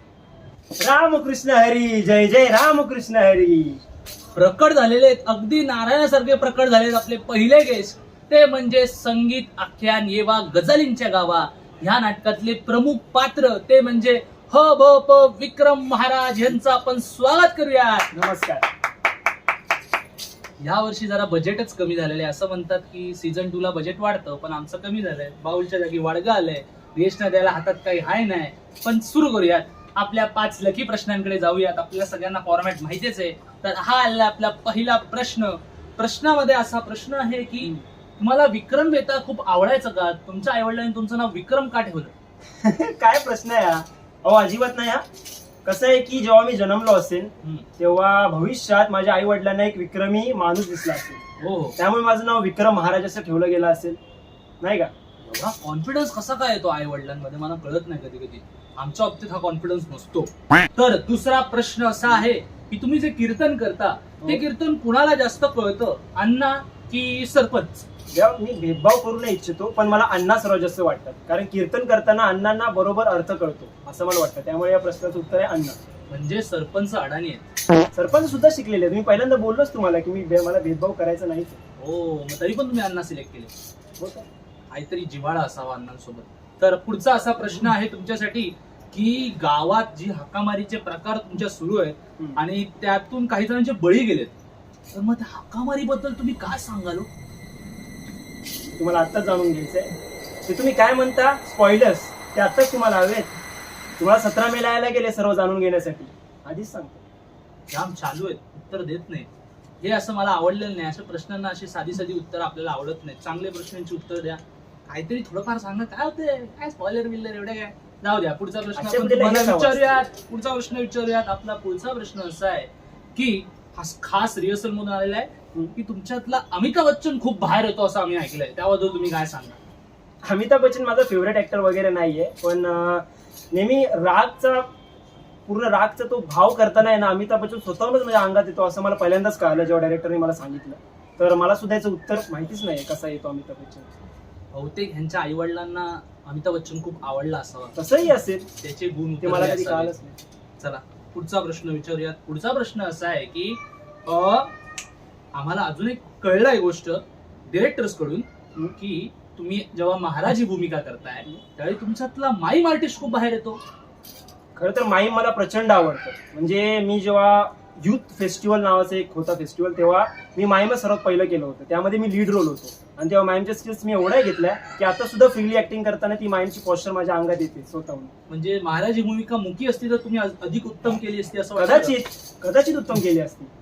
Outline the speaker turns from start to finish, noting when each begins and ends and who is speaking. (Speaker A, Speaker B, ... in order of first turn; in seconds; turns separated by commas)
Speaker A: 0.8-3.8, Speaker B: 4.3-18.1, Speaker A: 18.1-18.7, Speaker B: 20.6-42.1, Speaker A: 42.6-45.0, Speaker A: 45.6-51.2, Speaker B: 51.4-51.8, Speaker A: 51.8-54.0, Speaker A: 54.6-54.9, Speaker B: 55.2-67.9, Speaker A: 68.1-75.8, Speaker B: 76.1-77.4, Speaker A: 77.9-81.6, Speaker B: 81.8-83.5, Speaker A: 84.0-84.3, Speaker B: 84.7-94.3, Speaker B: 94.9-97.1, Speaker A: 98.8-99.9, Speaker A: 100.4-103.3, Speaker A: 104.0-107.0, Speaker B: 107.7-109.3, Speaker B: 109.8-129.6, Speaker A: 118.8-120.0, Speaker A: 130.2-134.7, Speaker A: 135.5-143.9, Speaker B: 144.5-147.7, Speaker A: 147.8-148.5, Speaker B: 148.6-149.9, Speaker A: 149.2-150.2, Speaker B: 150.6-154.5, Speaker B: 155.3-163.6, Speaker A: 164.6-178.1, Speaker B: 178.3-181.9, Speaker A: 181.6-183.5